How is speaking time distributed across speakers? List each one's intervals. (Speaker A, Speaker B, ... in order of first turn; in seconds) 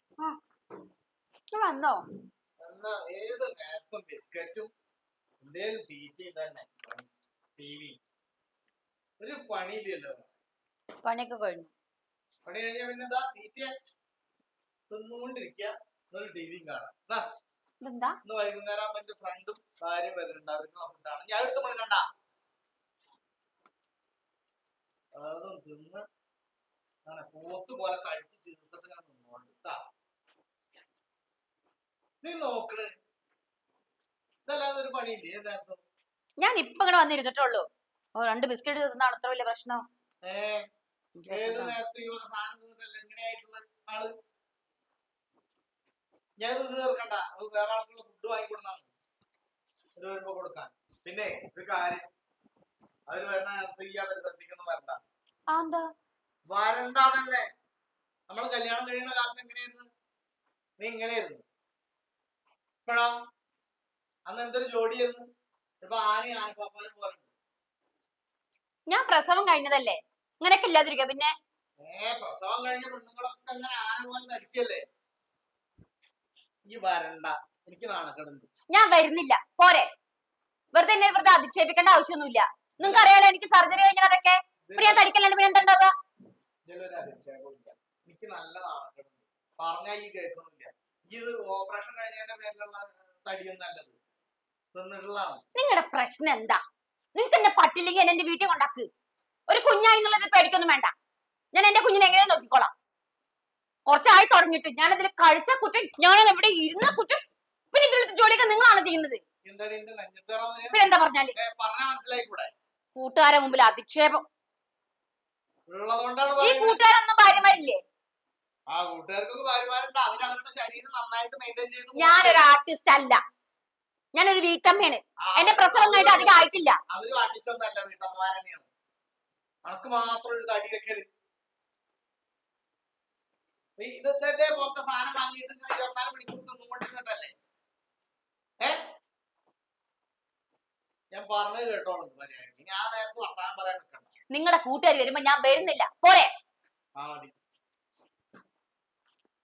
Speaker A: 1.5-2.0, 11.0-11.7, 17.8-18.2, 36.4-39.9, 41.2-41.8, 55.5-55.9, 68.9-71.3, 78.7-79.9, 80.7-85.9, 95.5-96.6, 97.1-98.9, 99.5-100.9, 101.5-102.7, 103.9-109.2, 110.7-111.3, 112.9-114.2, 116.4-117.8, 121.9-123.2, 124.1-126.8, 144.3-146.3
Speaker B: 2.6-4.7, 5.4-8.0, 9.2-10.3, 12.4-13.7, 14.9-17.2, 18.2-22.1, 25.1-26.1, 27.1-29.8, 32.2-32.9, 34.5-35.8, 40.2-40.7, 41.3-44.1, 46.4-48.9, 50.0-52.0, 53.1-55.0, 56.5-57.5, 58.3-59.9, 60.8-61.4, 62.8-63.1, 64.3-65.2, 65.8-67.3, 71.8-74.8, 76.7-78.5, 82.8-83.1, 84.7-85.2, 86.7-94.0, 94.7-95.4, 109.4-112.5, 115.7-116.8, 118.7-122.4, 125.2-128.7, 129.6-131.1, 133.8-137.3, 141.1-144.1, 146.9-147.3